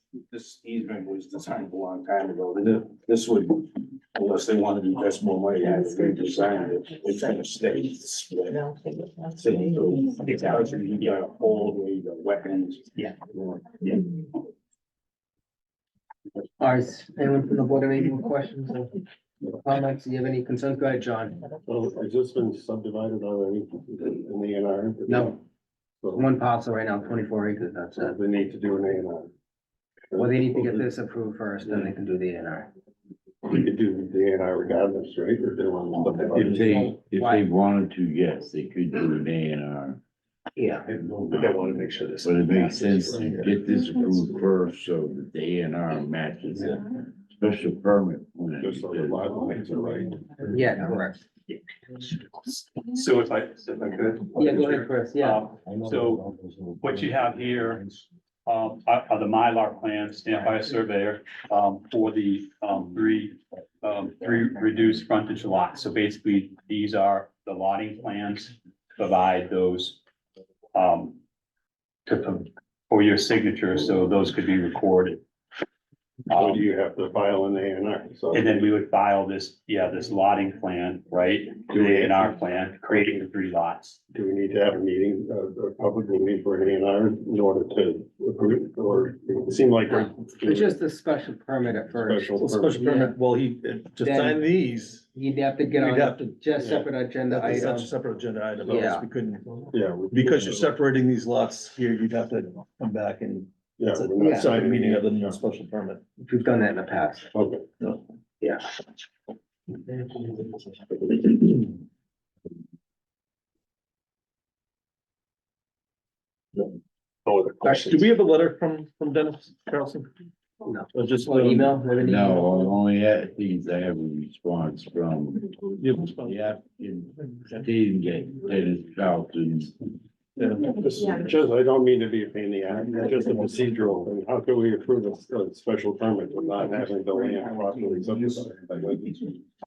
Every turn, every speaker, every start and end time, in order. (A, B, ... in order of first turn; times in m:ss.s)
0:00.3-0:08.8 A
0:09.4-0:14.0 A
0:16.6-0:18.9 B
0:19.6-0:21.4 B
0:21.7-0:25.4 C
0:25.1-0:25.4 B
0:26.1-0:28.2 B
0:28.0-0:29.3 C
0:30.1-0:30.8 C
0:30.2-0:32.7 B
0:33.4-0:36.7 C
0:36.3-0:40.0 D
0:36.4-0:37.5 B
0:40.6-0:40.8 B
0:41.3-0:43.4 C
0:42.2-0:49.4 D
0:48.6-0:50.7 C
0:50.5-0:51.2 B
0:52.8-0:56.3 E
0:54.4-0:55.5 B
0:56.8-0:57.8 E
0:58.5-1:10.0 E
1:10.8-1:11.2 E
1:12.1-1:15.2 E
1:16.3-1:16.7 E
1:16.3-1:18.5 C
1:18.3-1:24.0 E
1:21.7-1:22.4 C
1:24.1-1:30.8 C
1:29.9-1:33.2 B
1:32.0-1:32.8 C
1:32.4-1:35.1 F
1:34.0-1:34.5 B
1:35.1-1:37.9 B
1:35.8-1:36.4 F
1:36.6-1:36.8 C
1:37.3-1:46.0 F
1:38.6-1:39.1 B
1:39.7-1:40.7 C
1:43.8-1:45.3 C
1:44.2-1:44.5 B
1:46.2-1:47.3 B
1:47.3-1:47.7 C
1:57.2-1:58.1 C
1:57.6-2:00.1 F
2:00.6-2:02.8 B
2:00.9-2:01.8 F
2:02.0-2:05.6 D
2:05.8-2:06.5 F
2:06.2-2:09.8 D
2:10.4-2:11.4 F
2:11.0-2:19.1 C
2:16.6-2:19.2 A